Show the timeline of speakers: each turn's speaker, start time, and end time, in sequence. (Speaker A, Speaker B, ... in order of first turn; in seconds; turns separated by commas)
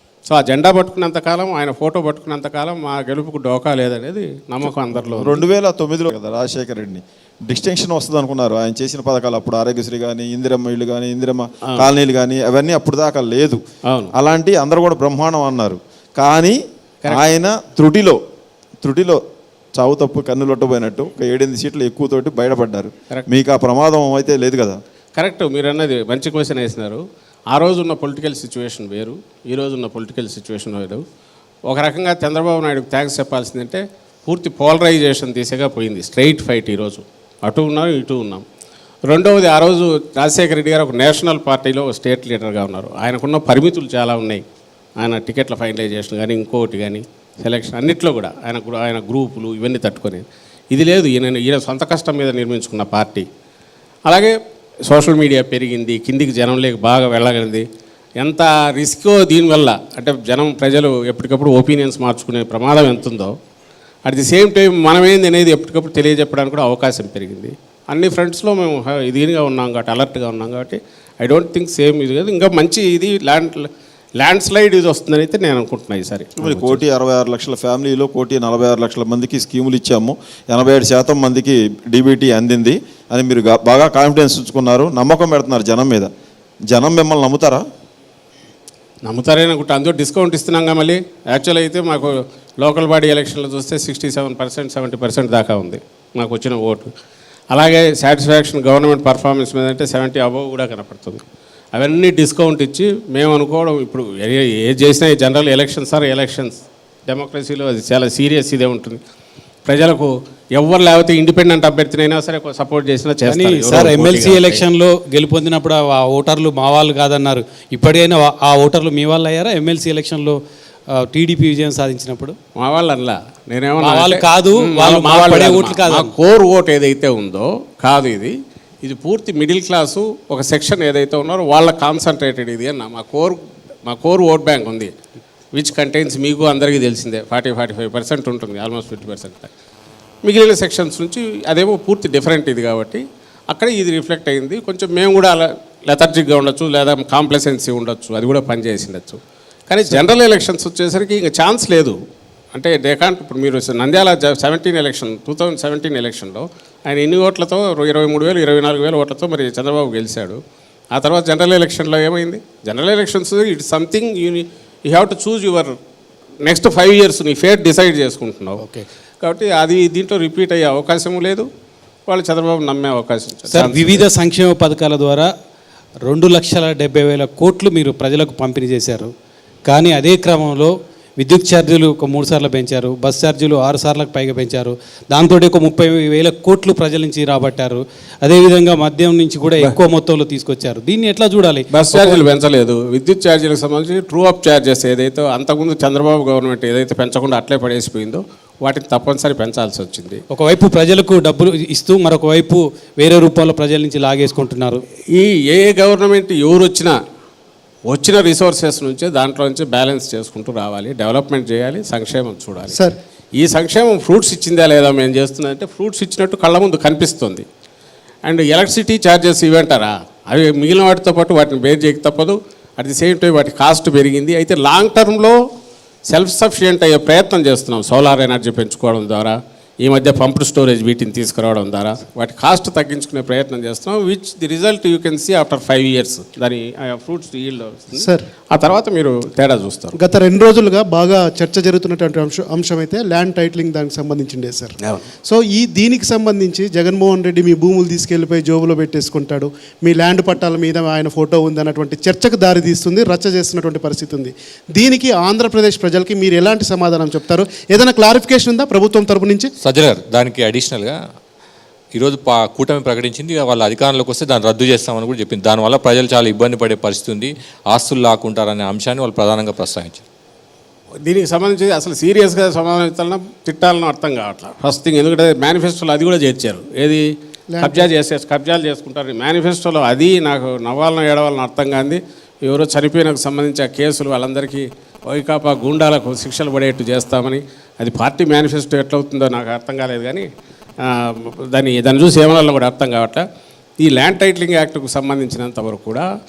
Speaker A: 0.3-5.4, Speaker B: 4.6-13.6, Speaker B: 14.2-16.6, Speaker B: 17.1-18.2, Speaker B: 18.8-19.2, Speaker B: 19.8-24.8, Speaker A: 25.2-31.0, Speaker A: 31.7-38.4, Speaker A: 39.1-44.4, Speaker A: 45.0-53.3, Speaker A: 54.1-54.3, Speaker A: 54.9-57.6, Speaker A: 58.2-63.3, Speaker A: 64.0-76.8, Speaker B: 76.4-86.1, Speaker B: 86.7-87.6, Speaker A: 89.0-96.9, Speaker A: 97.5-101.2, Speaker A: 101.7-109.0, Speaker A: 109.6-114.6, Speaker C: 113.2-120.4, Speaker C: 120.9-122.3, Speaker A: 122.6-134.9, Speaker C: 123.8-126.1, Speaker A: 135.5-139.5, Speaker A: 140.2-152.0, Speaker A: 152.5-160.4, Speaker A: 160.9-165.7, Speaker A: 166.4-168.6, Speaker A: 169.2-171.5, Speaker A: 172.1-174.1, Speaker C: 173.5-175.3, Speaker C: 176.1-179.1, Speaker C: 179.7-192.2, Speaker A: 191.7-200.2, Speaker C: 200.3-204.8, Speaker A: 205.1-207.0, Speaker A: 207.9-212.8, Speaker D: 212.7-212.9, Speaker A: 213.4-217.4, Speaker A: 218.2-225.4, Speaker A: 226.1-239.9, Speaker D: 237.9-238.2, Speaker D: 240.0-244.7, Speaker A: 244.8-245.1, Speaker D: 245.2-259.5, Speaker E: 259.6-261.0, Speaker E: 261.9-270.0, Speaker A: 271.0-277.1, Speaker D: 277.5-277.9, Speaker A: 277.6-290.3, Speaker A: 290.8-293.2, Speaker A: 293.8-296.1